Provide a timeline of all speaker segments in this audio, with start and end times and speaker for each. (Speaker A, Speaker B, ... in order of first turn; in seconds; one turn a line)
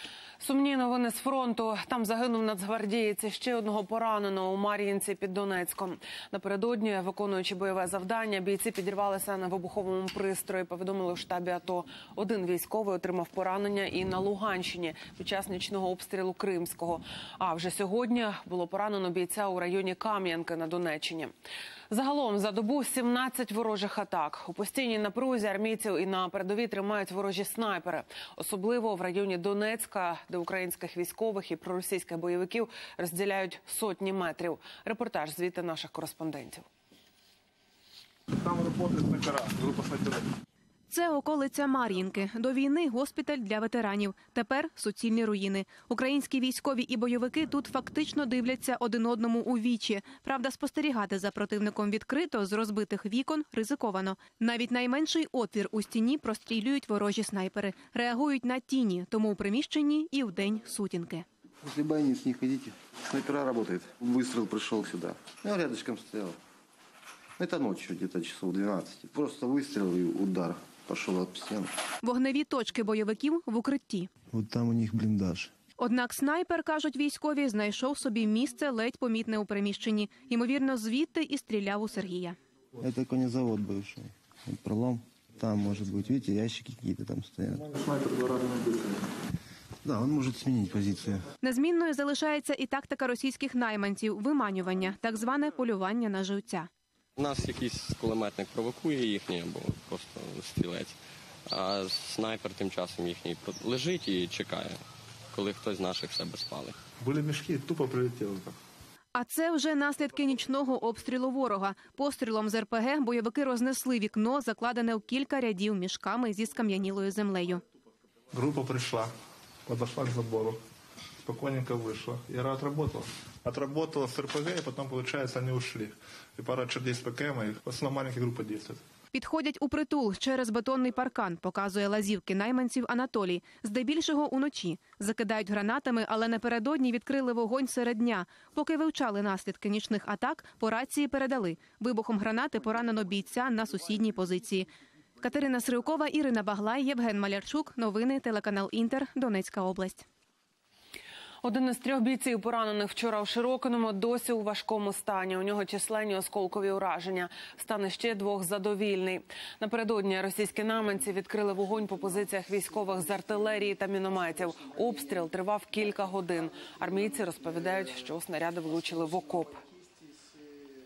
Speaker A: 0.4-21.3
Speaker A: 21.9-36.7
Speaker B: 38.4-40.3
Speaker C: 40.9-61.2
Speaker D: 61.6-66.4
Speaker D: 67.4-71.7
Speaker C: 72.0-74.1
Speaker D: 74.3-75.5
Speaker C: 75.8-82.4
Speaker D: 82.8-87.7
Speaker B: 87.6-89.0
Speaker D: 89.8-91.2
Speaker C: 91.4-96.7
Speaker E: 97.2-101.0
Speaker E: 101.5-104.8
Speaker E: 105.3-106.8
Speaker B: 107.0-108.6
Speaker C: 109.2-117.6
Speaker B: 118.3-119.1
Speaker B: 119.7-120.6
Speaker B: 121.2-128.8
Speaker C: 129.1-144.7
Speaker C: 145.2-150.1
Speaker A: 151.4-169.6